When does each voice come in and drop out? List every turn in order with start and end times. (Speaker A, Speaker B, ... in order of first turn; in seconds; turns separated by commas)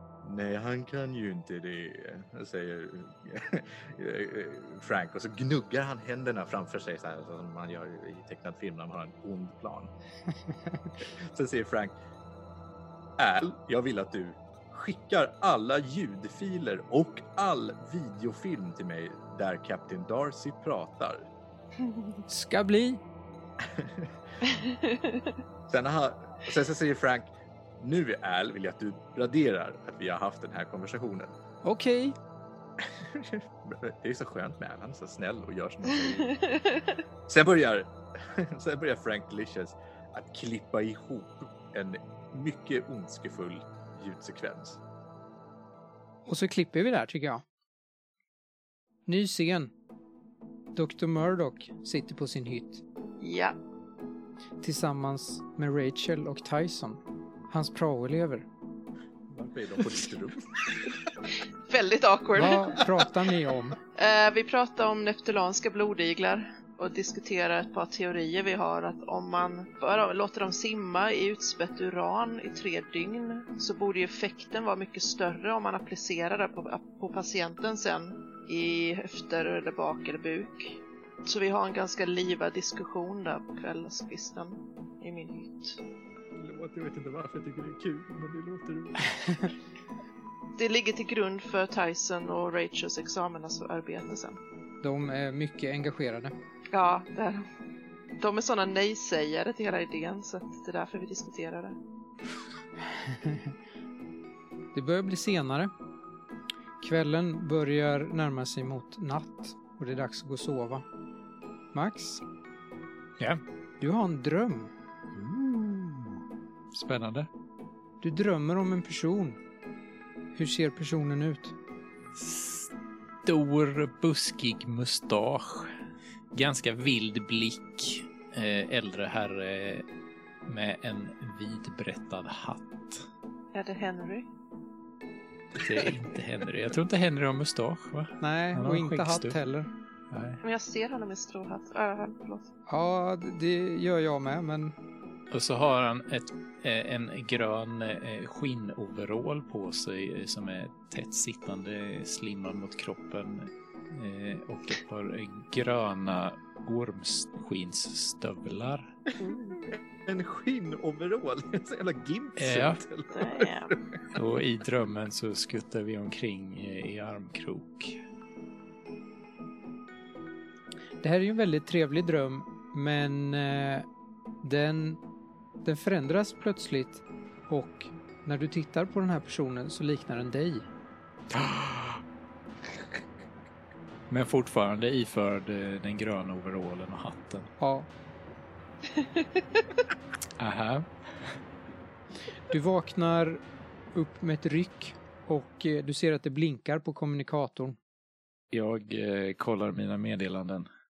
Speaker A: 0.2-9.9, Speaker A: 11.0-11.9, Speaker A: 13.2-21.3, Speaker B: 22.3-23.0, Speaker A: 23.7-24.1, Speaker C: 24.5-25.3, Speaker A: 25.7-31.3, Speaker B: 31.6-32.1, Speaker A: 33.0-36.5, Speaker C: 36.3-36.8, Speaker A: 37.3-44.8, Speaker B: 46.2-47.4, Speaker B: 49.0-49.7, Speaker B: 50.7-52.8, Speaker C: 53.2-53.6, Speaker B: 54.6-58.5, Speaker A: 59.3-60.4, Speaker C: 61.7-62.8, Speaker B: 62.3-63.8, Speaker C: 63.9-85.8, Speaker A: 86.3-89.0, Speaker C: 90.6-94.4, Speaker B: 94.8-96.3, Speaker C: 96.7-97.5, Speaker C: 98.2-101.8, Speaker B: 104.7-105.7, Speaker B: 106.8-110.8, Speaker B: 111.7-112.2, Speaker B: 113.8-114.7, Speaker D: 115.1-116.2, Speaker D: 116.7-117.3, Speaker B: 118.0-119.4, Speaker B: 120.3-121.5, Speaker D: 122.2-122.7, Speaker D: 123.2-125.7, Speaker D: 126.3-129.8, Speaker D: 130.5-133.1, Speaker C: 133.5-134.3, Speaker D: 135.6-139.4, Speaker B: 138.2-139.7, Speaker D: 140.1-140.4, Speaker C: 140.4-142.5, Speaker B: 142.7-144.7, Speaker D: 145.3-158.9, Speaker C: 159.2-159.6, Speaker A: 159.6-164.0, Speaker D: 162.4-162.8, Speaker C: 163.1-163.8, Speaker D: 164.1-168.0, Speaker B: 171.0-173.8, Speaker B: 174.4-175.0, Speaker B: 175.6-180.7, Speaker D: 181.3-182.0, Speaker D: 184.1-187.5, Speaker B: 187.6-187.9, Speaker C: 189.0-189.2, Speaker D: 190.4-190.9, Speaker B: 192.5-193.4, Speaker B: 193.9-197.8, Speaker D: 198.5-200.7